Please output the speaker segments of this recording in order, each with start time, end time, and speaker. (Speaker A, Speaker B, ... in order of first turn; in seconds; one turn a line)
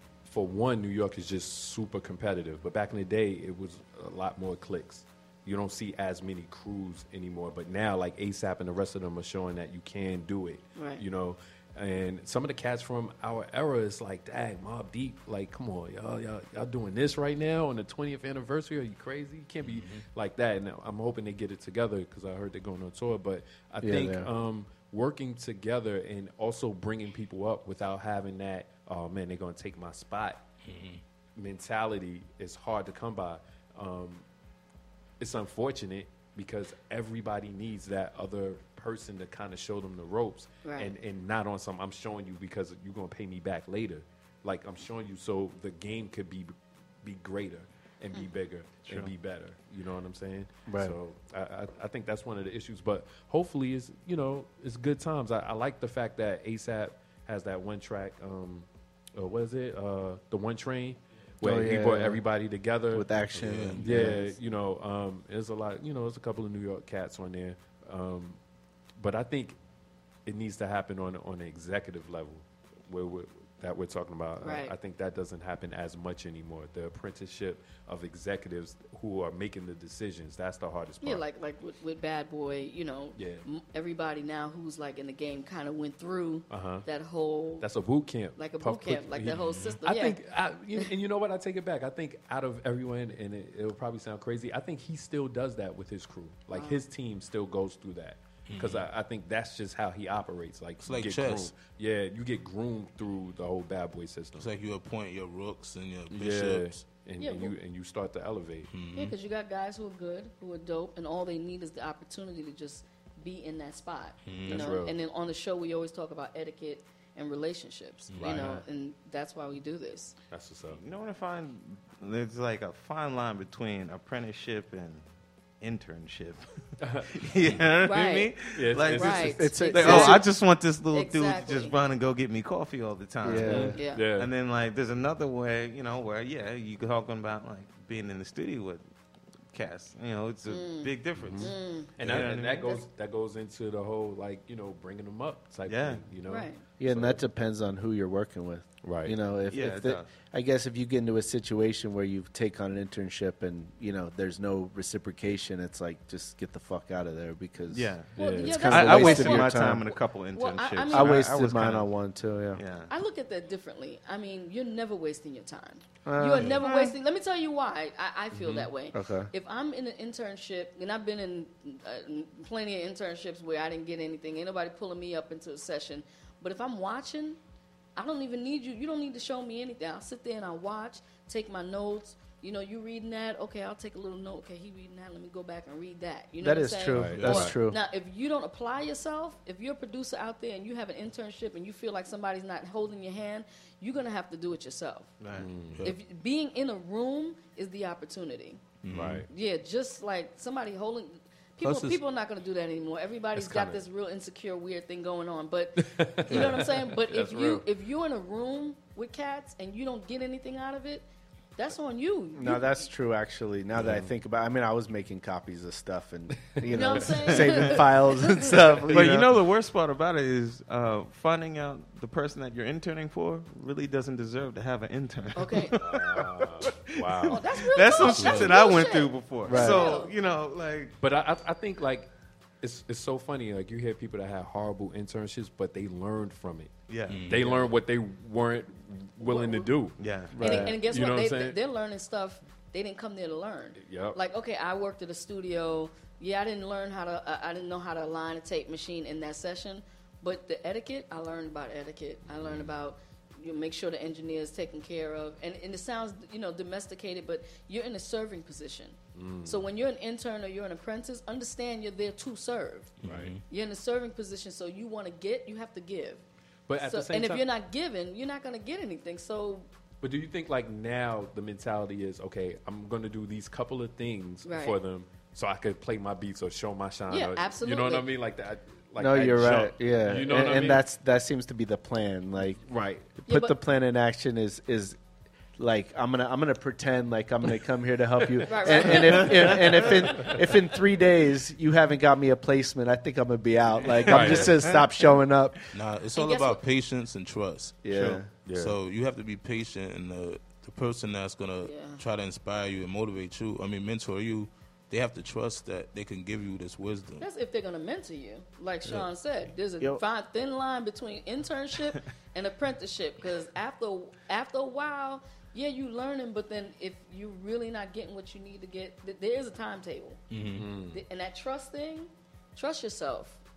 Speaker A: 0.2-30.4
Speaker B: 10.8-11.0
Speaker C: 19.6-20.1
Speaker D: 23.8-24.3
Speaker C: 30.6-31.0
Speaker A: 31.4-34.2
Speaker A: 35.2-63.1
Speaker B: 40.6-40.9
Speaker D: 50.7-51.0
Speaker D: 61.4-62.2
Speaker D: 62.9-64.4
Speaker C: 63.3-63.8
Speaker A: 63.8-68.4
Speaker A: 69.0-69.6
Speaker A: 70.2-81.2
Speaker B: 74.4-74.7
Speaker B: 81.0-87.7
Speaker A: 83.2-83.5
Speaker A: 86.5-86.9
Speaker A: 87.6-104.5
Speaker B: 88.3-90.2
Speaker C: 89.5-89.8
Speaker B: 96.5-96.8
Speaker C: 98.5-98.9
Speaker C: 100.8-101.5
Speaker C: 104.4-106.9
Speaker A: 106.1-108.7
Speaker B: 107.2-107.5
Speaker C: 108.7-109.1
Speaker B: 108.9-120.2
Speaker C: 114.2-114.7
Speaker A: 114.5-115.0
Speaker A: 118.2-118.7
Speaker A: 120.3-120.8
Speaker E: 120.7-125.0
Speaker E: 125.6-126.4
Speaker A: 126.8-127.1
Speaker E: 127.1-138.8
Speaker B: 127.8-128.3
Speaker A: 128.5-130.2
Speaker B: 128.9-130.2
Speaker D: 129.2-130.2
Speaker B: 130.9-131.8
Speaker D: 133.2-133.8
Speaker A: 133.4-134.3
Speaker B: 133.4-134.0
Speaker E: 139.5-142.8
Speaker B: 140.5-141.9
Speaker A: 141.2-147.2
Speaker E: 145.7-146.0
Speaker B: 146.2-146.6
Speaker D: 146.8-159.9
Speaker A: 148.8-149.2
Speaker E: 149.5-150.1
Speaker E: 157.7-161.9
Speaker A: 158.2-159.2
Speaker B: 158.2-159.7
Speaker B: 160.3-161.2
Speaker D: 160.9-162.6
Speaker E: 162.5-162.9
Speaker B: 162.9-177.4
Speaker D: 166.0-166.6
Speaker E: 166.6-166.9
Speaker A: 168.3-168.7
Speaker D: 168.9-169.3
Speaker B: 178.0-195.1
Speaker D: 186.4-187.8
Speaker A: 186.9-187.5
Speaker C: 187.2-187.5
Speaker E: 195.2-195.5
Speaker A: 195.3-195.8
Speaker B: 195.8-198.6
Speaker C: 198.8-199.2
Speaker A: 198.9-199.3
Speaker B: 199.3-212.9
Speaker C: 201.6-202.0
Speaker A: 203.3-203.8
Speaker A: 205.8-207.7
Speaker D: 212.4-219.3
Speaker A: 213.8-214.1
Speaker A: 216.6-217.4
Speaker B: 216.7-218.5
Speaker E: 217.4-217.8
Speaker E: 218.9-231.0
Speaker B: 225.4-225.8
Speaker A: 225.8-227.5
Speaker B: 227.3-230.1
Speaker C: 228.1-228.6
Speaker D: 229.5-229.9
Speaker A: 231.0-232.1
Speaker A: 232.6-236.7
Speaker E: 236.9-237.7
Speaker C: 237.1-237.4
Speaker A: 237.3-241.6
Speaker B: 239.2-239.7
Speaker E: 240.0-240.4
Speaker D: 240.3-240.8
Speaker B: 240.4-262.9
Speaker A: 243.8-244.2
Speaker A: 252.3-252.7
Speaker A: 259.1-259.7
Speaker C: 263.0-263.4
Speaker A: 263.0-263.3
Speaker B: 263.5-266.2
Speaker A: 266.7-267.5
Speaker B: 266.8-269.7
Speaker A: 270.0-280.9
Speaker B: 274.4-274.8
Speaker B: 277.1-278.1
Speaker D: 279.0-282.6
Speaker A: 282.6-283.1
Speaker D: 283.1-285.0
Speaker B: 283.3-283.6
Speaker D: 285.6-295.6
Speaker B: 288.5-290.3
Speaker E: 289.1-289.7
Speaker A: 294.0-294.7
Speaker E: 294.1-294.8
Speaker C: 295.7-297.8
Speaker B: 296.1-296.6
Speaker D: 297.8-298.3
Speaker A: 298.0-298.8
Speaker C: 298.5-307.2
Speaker B: 301.7-302.0
Speaker B: 307.2-320.2
Speaker C: 320.3-320.6
Speaker A: 320.5-321.0
Speaker B: 320.9-323.4